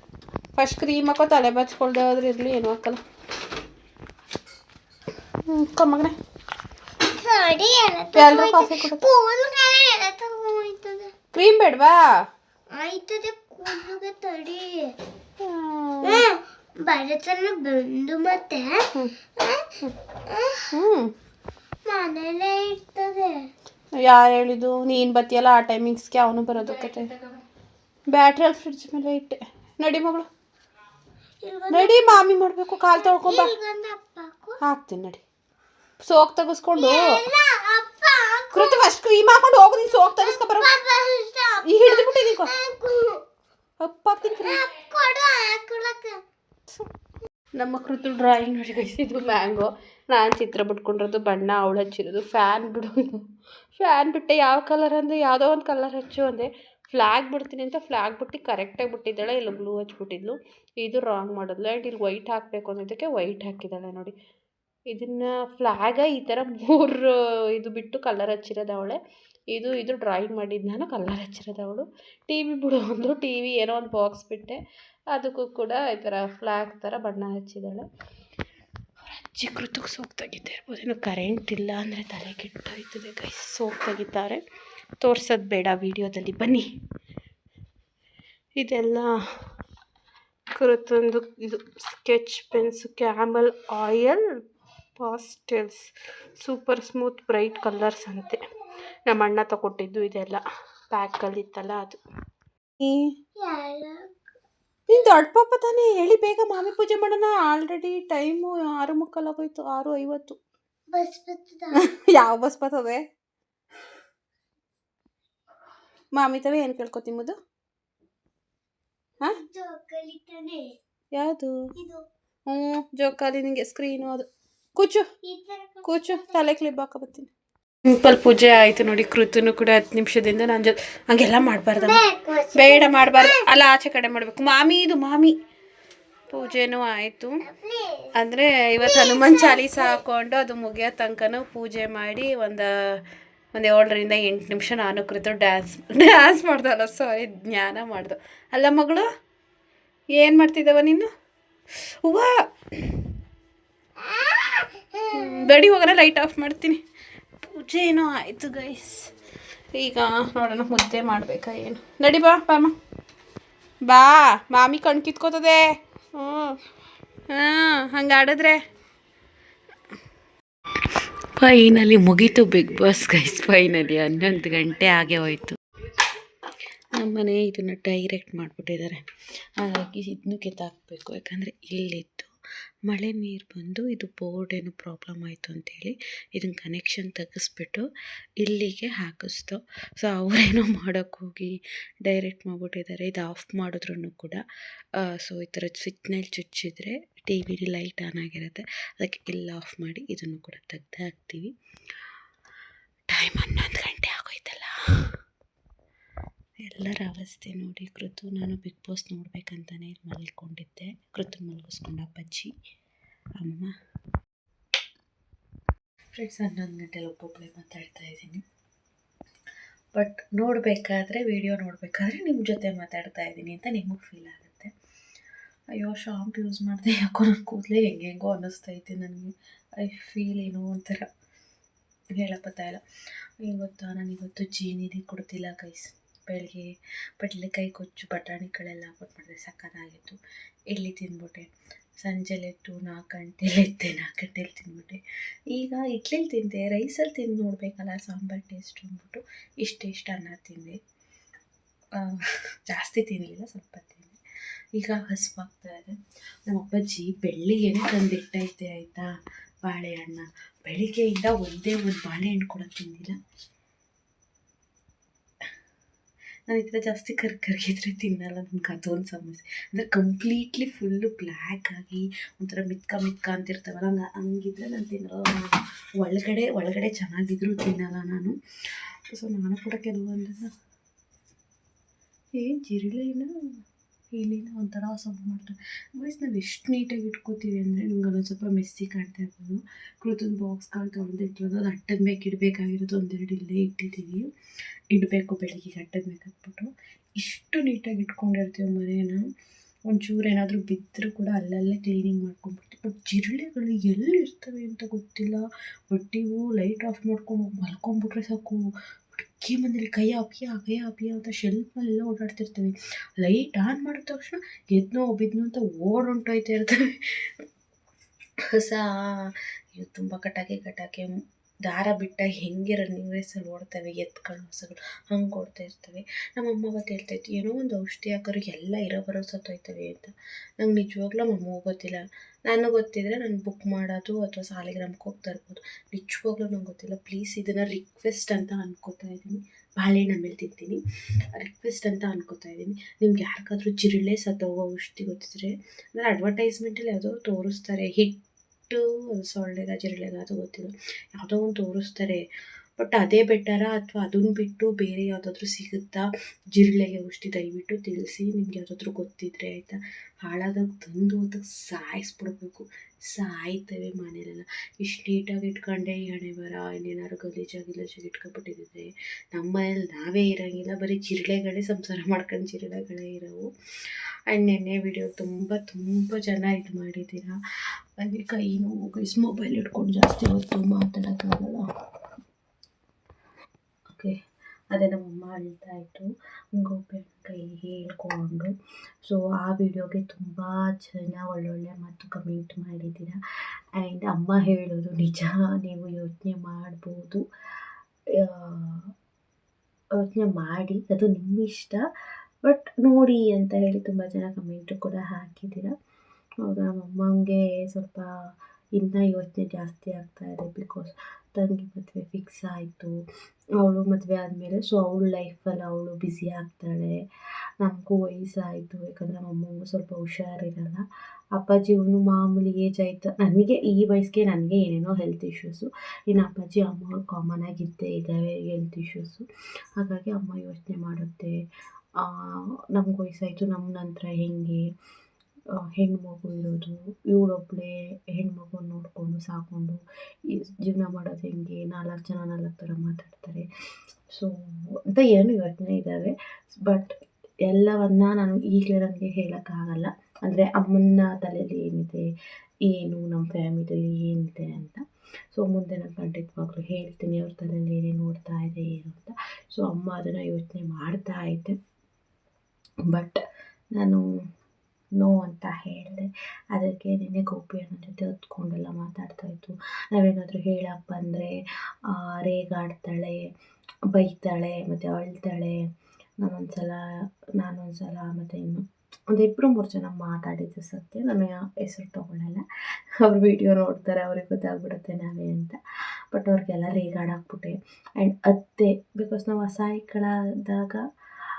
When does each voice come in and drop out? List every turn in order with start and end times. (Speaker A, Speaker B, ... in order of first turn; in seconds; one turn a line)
Speaker A: 0.6-3.0
Speaker A: 5.5-6.1
Speaker B: 7.1-11.1
Speaker A: 8.1-9.0
Speaker A: 11.3-12.1
Speaker B: 12.7-14.9
Speaker A: 15.4-16.2
Speaker B: 16.0-20.7
Speaker A: 20.7-21.1
Speaker B: 21.8-23.4
Speaker A: 23.9-27.1
Speaker A: 28.1-30.3
Speaker B: 31.4-32.3
Speaker A: 31.7-33.5
Speaker B: 33.0-34.6
Speaker A: 34.6-35.2
Speaker A: 36.0-37.2
Speaker B: 36.7-38.8
Speaker A: 38.5-40.7
Speaker B: 40.1-43.2
Speaker A: 41.6-42.5
Speaker A: 43.8-44.6
Speaker B: 44.4-46.2
Speaker A: 47.6-53.2
Speaker A: 53.8-64.1
Speaker A: 64.9-69.0
Speaker A: 69.5-74.6
Speaker A: 75.1-77.8
Speaker A: 79.1-84.4
Speaker A: 85.0-86.6
Speaker A: 88.6-89.1
Speaker A: 90.6-94.2
Speaker A: 95.0-95.8
Speaker A: 96.4-98.4
Speaker A: 99.1-102.0
Speaker A: 102.8-103.1
Speaker B: 103.3-104.1
Speaker A: 104.9-110.4
Speaker B: 110.9-111.8
Speaker A: 111.8-113.0
Speaker A: 116.1-117.4
Speaker B: 119.2-120.8
Speaker A: 121.1-121.6
Speaker B: 121.8-122.0
Speaker A: 122.5-125.0
Speaker B: 125.2-126.5
Speaker A: 125.8-127.3
Speaker A: 127.9-132.0
Speaker B: 131.8-133.5
Speaker A: 132.5-135.3
Speaker A: 136.3-137.4
Speaker B: 137.4-138.1
Speaker A: 138.2-143.0
Speaker B: 138.8-140.0
Speaker A: 143.5-149.1
Speaker A: 150.1-151.1
Speaker A: 152.0-152.3
Speaker B: 154.0-155.4
Speaker A: 155.1-156.8
Speaker A: 157.4-159.1
Speaker A: 159.7-162.7
Speaker A: 163.9-166.6
Speaker A: 167.3-168.6
Speaker A: 171.4-175.6
Speaker A: 176.9-179.0
Speaker A: 179.6-182.3
Speaker A: 182.9-187.9
Speaker A: 188.4-194.4
Speaker A: 195.0-201.5
Speaker A: 203.1-204.8
Speaker A: 206.6-212.5
Speaker A: 213.4-213.7
Speaker A: 216.1-218.4
Speaker A: 219.9-224.7
Speaker A: 225.7-231.1
Speaker A: 232.2-232.8
Speaker A: 233.4-236.7
Speaker A: 237.2-240.2
Speaker A: 240.7-245.0
Speaker A: 245.5-250.8
Speaker A: 252.7-254.2
Speaker A: 254.8-255.9
Speaker A: 256.5-259.1
Speaker A: 259.6-263.1
Speaker A: 266.5-278.3
Speaker A: 279.1-280.5
Speaker A: 282.4-283.3
Speaker A: 284.1-294.3
Speaker A: 294.9-299.2
Speaker A: 299.9-317.0
Speaker A: 318.5-321.1
Speaker A: 321.6-340.8
Speaker A: 341.3-352.2
Speaker A: 352.8-373.5
Speaker A: 374.3-377.4
Speaker A: 378.0-381.6
Speaker A: 383.9-384.1
Speaker A: 384.7-388.5
Speaker A: 389.0-393.2
Speaker A: 393.8-397.2
Speaker A: 398.2-398.9
Speaker A: 400.0-401.8
Speaker A: 402.4-405.7
Speaker A: 406.4-408.1
Speaker A: 408.7-412.9
Speaker A: 413.6-417.0
Speaker A: 417.6-420.8
Speaker A: 421.3-429.2
Speaker A: 429.8-431.3
Speaker A: 432.0-434.6
Speaker A: 435.7-443.4
Speaker A: 444.9-446.9
Speaker A: 447.5-452.0
Speaker A: 452.6-454.8
Speaker A: 455.3-461.6
Speaker A: 462.9-463.2
Speaker A: 463.7-464.0
Speaker A: 465.0-471.3
Speaker A: 471.9-473.3
Speaker A: 473.9-475.6
Speaker A: 476.2-476.8
Speaker A: 477.4-482.4
Speaker A: 483.0-485.6
Speaker A: 486.1-490.8